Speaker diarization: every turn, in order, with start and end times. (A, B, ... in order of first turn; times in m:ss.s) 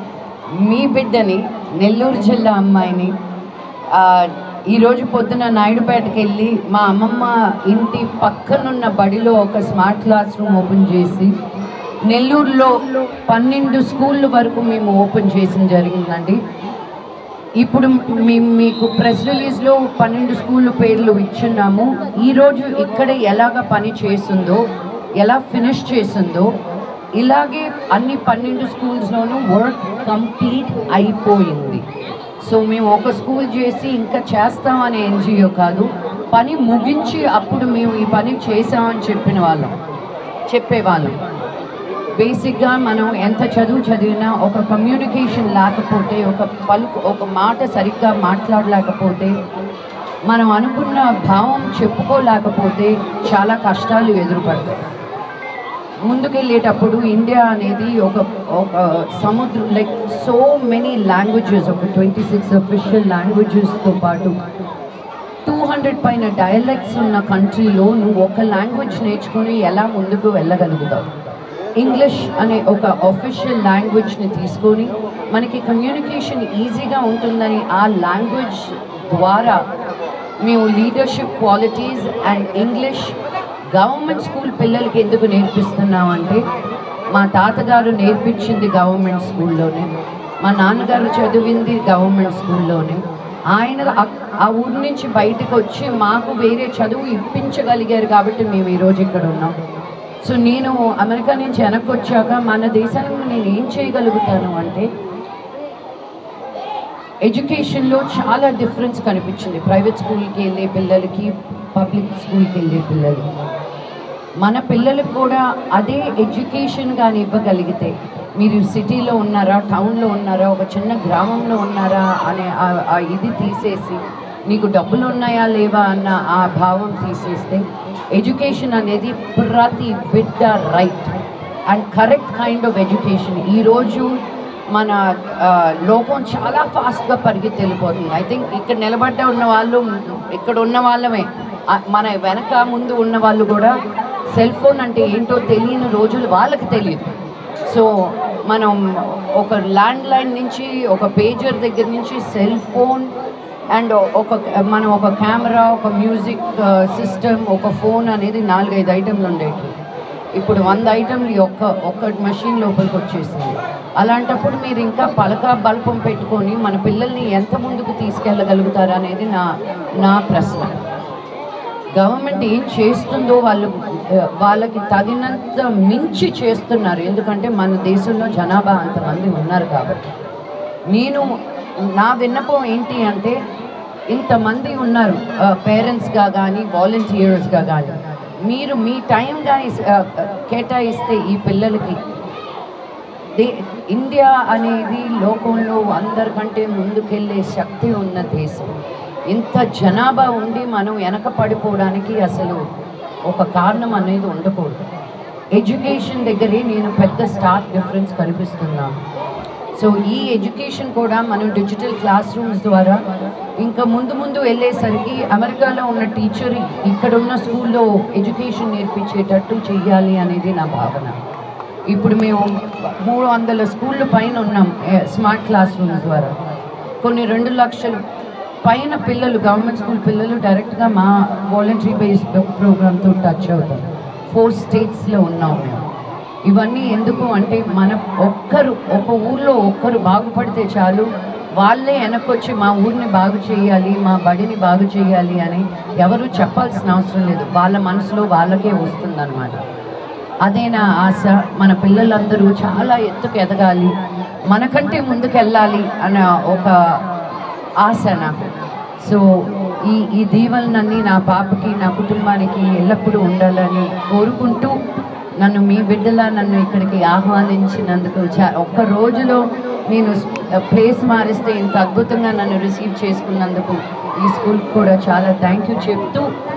0:00.5-0:03.2 A
0:03.9-0:11.3 A
0:12.1-0:16.4 A
0:17.6-0:24.6 A
0:25.2-0:26.5 A
0:27.2-0:31.8 A
0:32.4-0:39.8 A
0:40.5-0:41.2 A
0:42.2-0:49.3 A
0:50.3-0:54.8 A
0:56.1-1:04.4 A
1:05.4-1:11.1 A
1:11.8-1:19.6 A
1:20.4-1:23.2 A
1:23.7-1:26.4 A
1:27.1-1:39.6 A
1:40.2-1:44.9 A
1:47.2-1:53.3 A
1:54.4-2:11.1 A
2:11.7-2:14.1 A
2:14.7-2:23.7 A
2:24.3-2:27.1 A
2:27.7-2:33.1 A
2:33.7-2:39.7 A
2:40.4-2:50.8 A
2:52.0-3:00.0 A
3:00.9-3:01.3 A
3:01.9-3:03.4 A
3:04.1-3:12.0 A
3:13.4-3:18.8 A
3:19.3-3:22.6 A
3:23.3-3:24.8 A
3:25.5-3:29.0 A
3:29.8-3:33.0 A
3:33.6-3:41.2 A
3:41.9-3:46.3 A
3:47.0-3:48.0 A
3:48.6-3:55.9 A
3:56.5-4:09.6 A
4:10.4-4:13.9 A
4:14.5-4:16.8 A
4:17.8-4:18.3 A
4:19.0-4:24.8 A
4:25.4-4:36.3 A